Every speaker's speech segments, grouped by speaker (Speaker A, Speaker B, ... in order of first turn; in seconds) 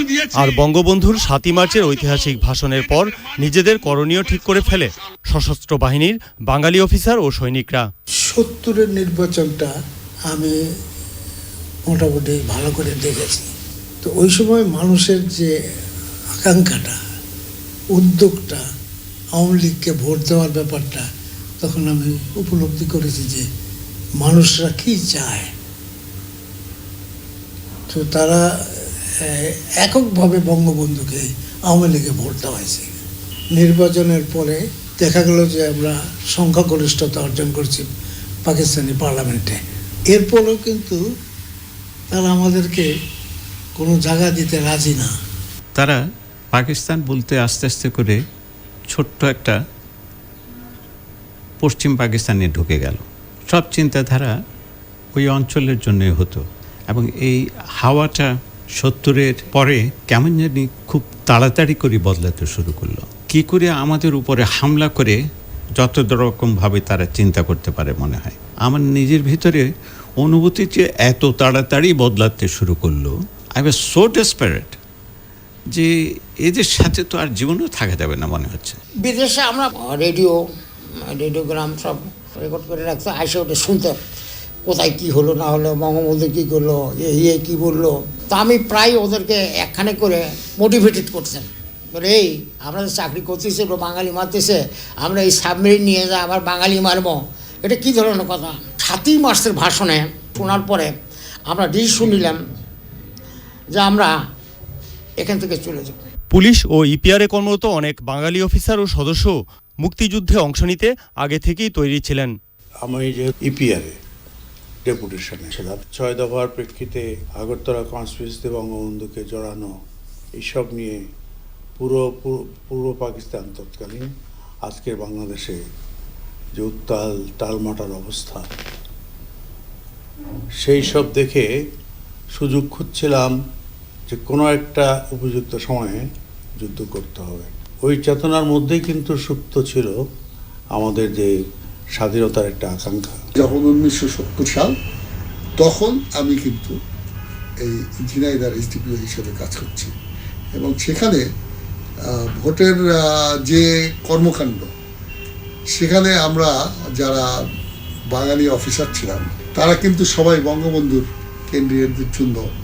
Speaker A: 0.3-7.9, 106.3-112.3
Speaker B: 8.3-9.7, 11.9-13.5, 14.0-15.5, 16.4-17.0, 17.9-18.6, 19.4-21.1, 21.6-23.5, 24.2-25.5, 27.9-32.9, 33.6-37.9, 38.5-39.6, 40.1-41.0, 42.1-42.9, 43.8-45.1
Speaker C: 46.5-48.2, 48.9-49.6, 51.6-54.4, 55.1-65.2, 65.8-69.7, 70.2-74.8, 76.4-78.8
Speaker D: 79.0-80.4, 81.0-84.0, 84.7-100.9, 101.5-102.4, 103.8-104.1, 105.2-106.0
Speaker E: 112.8-113.9, 114.9-119.7, 120.4-121.0, 121.8-124.1, 124.7-125.6, 126.6-128.5, 130.6-131.5, 132.3-133.3, 134.1-139.9, 140.8-141.3, 142.0-143.2
Speaker F: 143.4-144.8, 145.6-146.8, 147.6-149.9, 150.6-151.3, 152.1-154.7, 155.7-157.3, 158.1-162.5